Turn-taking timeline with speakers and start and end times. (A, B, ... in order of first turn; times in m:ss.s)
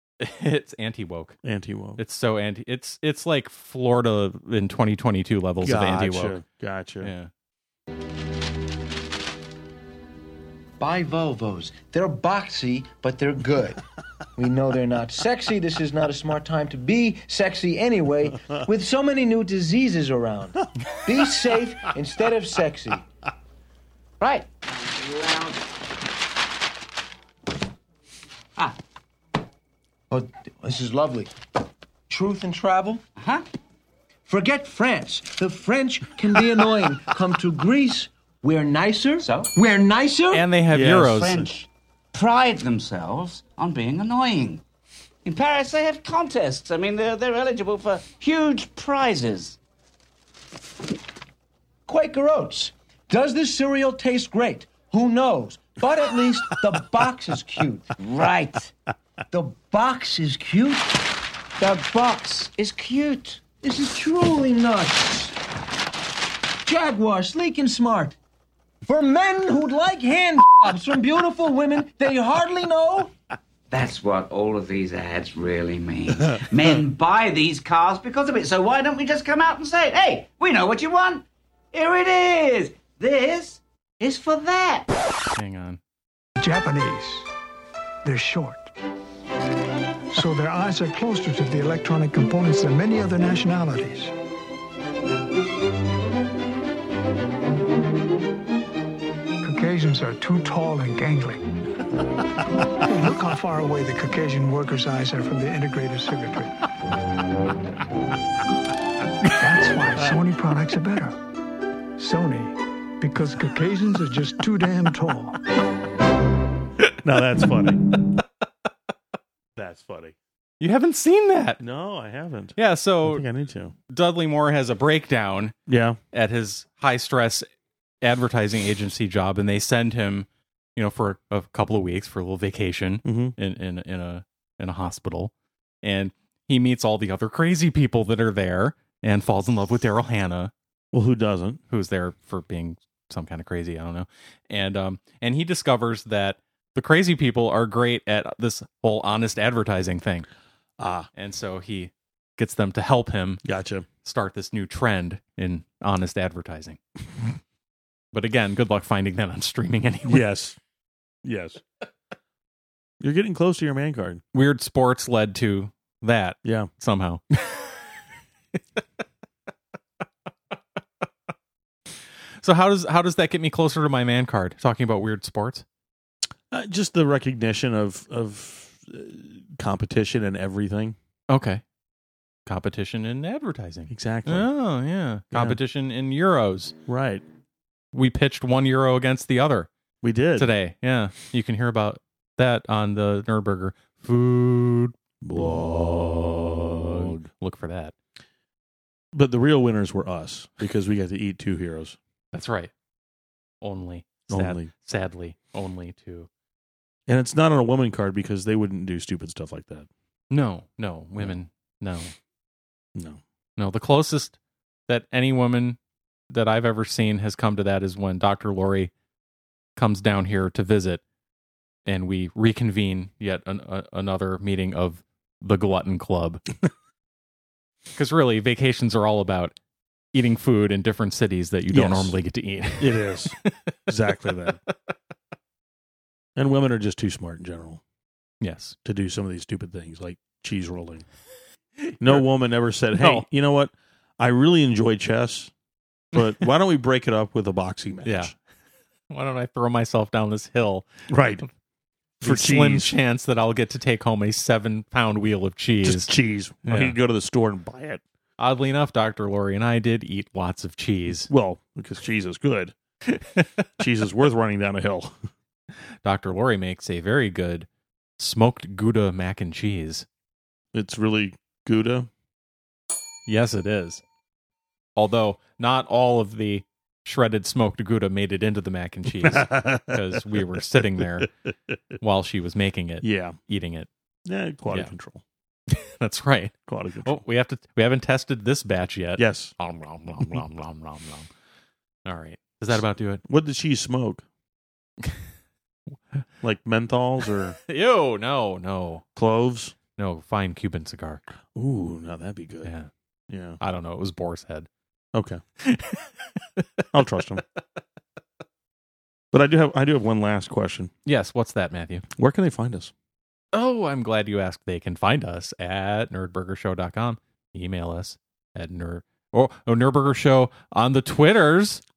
0:00.2-0:01.4 A
0:01.4-0:02.0 B
0:02.0-0:06.4 A
0:05.6-0:07.1 B
0:07.0-0:07.3 A
0:10.8-0:13.8 C
0:14.4-0:23.1 C
0:24.2-0:25.6 D
0:30.1-0:31.3 C
0:32.1-0:33.0 C
0:33.2-0:33.4 D
0:34.3-0:40.5 C
0:39.2-0:39.5 D
0:40.3-0:41.5 A
0:40.7-0:41.2 B
0:40.9-0:44.6 D
0:45.2-0:49.6 D
0:51.9-0:58.0 C
0:58.0-0:58.7 D
0:59.3-1:01.1 C
1:01.6-1:03.4 D
1:01.7-1:02.5 C
1:03.4-1:05.4 C
1:06.7-1:08.2 C
1:08.8-1:13.1 C
1:13.7-1:24.9 D
1:25.4-1:25.8 A
1:26.4-1:27.3 E
1:28.0-1:28.7 E
1:30.1-1:34.1 E
1:39.4-1:41.4 E
1:42.7-1:46.5 E
1:49.3-1:51.2 E
1:52.0-1:55.4 E
1:57.0-1:57.9 B
1:59.6-2:00.2 B
2:00.6-2:01.6 A
2:01.6-2:03.7 B
2:02.6-2:03.2 A
2:03.9-2:05.6 A
2:05.7-2:06.0 B
2:06.1-2:07.5 A
2:08.0-2:15.3 A
2:13.0-2:13.4 B
2:15.8-2:20.5 A
2:20.9-2:21.6 B
2:21.7-2:30.3 A
2:30.8-2:31.1 B
2:31.2-2:33.4 A
2:33.4-2:33.9 B
2:34.0-2:36.8 A
2:38.1-2:40.3 A
2:40.1-2:40.6 B
2:41.2-2:41.6 B
2:43.0-2:44.2 B
2:44.3-2:47.8 A
2:46.4-2:46.7 B
2:52.4-2:55.6 A
2:56.5-3:01.0 B
3:01.3-3:01.6 A
3:02.5-3:06.8 A
3:03.9-3:04.5 B
3:05.3-3:05.6 B
3:06.9-3:07.2 B
3:07.9-3:09.7 A
3:10.0-3:10.5 B
3:10.4-3:17.9 A
3:15.2-3:17.3 B
3:19.1-3:22.0 B
3:22.3-3:22.7 A
3:23.6-3:26.3 A
3:24.3-3:24.7 B
3:27.1-3:29.9 B
3:30.3-3:32.1 A
3:33.0-3:33.2 B
3:33.6-3:34.4 A
3:34.9-3:35.8 A
3:36.3-3:38.9 A
3:39.8-3:41.0 A
3:41.9-3:46.4 A
3:48.0-3:49.6 A
3:50.1-3:53.7 A
3:51.7-3:52.2 B
3:52.8-3:53.4 B
3:53.9-3:54.6 B
3:56.4-3:57.8 B
3:58.4-3:58.8 A
3:58.8-4:01.0 B
4:01.9-4:02.3 A
4:02.0-4:05.5 B
4:03.0-4:03.3 A
4:06.1-4:08.3 B
4:08.0-4:08.3 A
4:09.1-4:10.9 A
4:11.1-4:11.5 B
4:12.2-4:12.9 B
4:12.2-4:16.1 A
4:15.8-4:18.0 B
4:16.6-4:17.0 A
4:18.4-4:21.3 A
4:21.3-4:22.7 B
4:23.1-4:23.4 A
4:23.8-4:25.2 B
4:26.0-4:27.7 A
4:28.2-4:30.1 A
4:30.7-4:32.1 B
4:33.3-4:34.0 A
4:35.0-4:41.3 A
4:39.2-4:40.6 B
4:42.0-4:43.9 A
4:43.0-4:43.4 B
4:44.3-4:45.2 B
4:45.7-4:51.3 A
4:46.7-4:47.2 B
4:49.2-4:49.5 B
4:52.0-4:53.2 A
4:53.2-4:54.2 B
4:56.4-4:57.6 B
4:57.6-4:59.0 A
4:59.2-4:59.8 B
5:00.0-5:01.2 A
5:01.6-5:02.7 B
5:02.6-5:02.9 A
5:03.3-5:03.6 B
5:03.6-5:04.7 A
5:05.1-5:05.4 B
5:05.6-5:06.8 A
5:06.9-5:07.4 B
5:09.3-5:10.9 B
5:11.1-5:12.0 A
5:12.2-5:12.9 B
5:13.5-5:21.8 A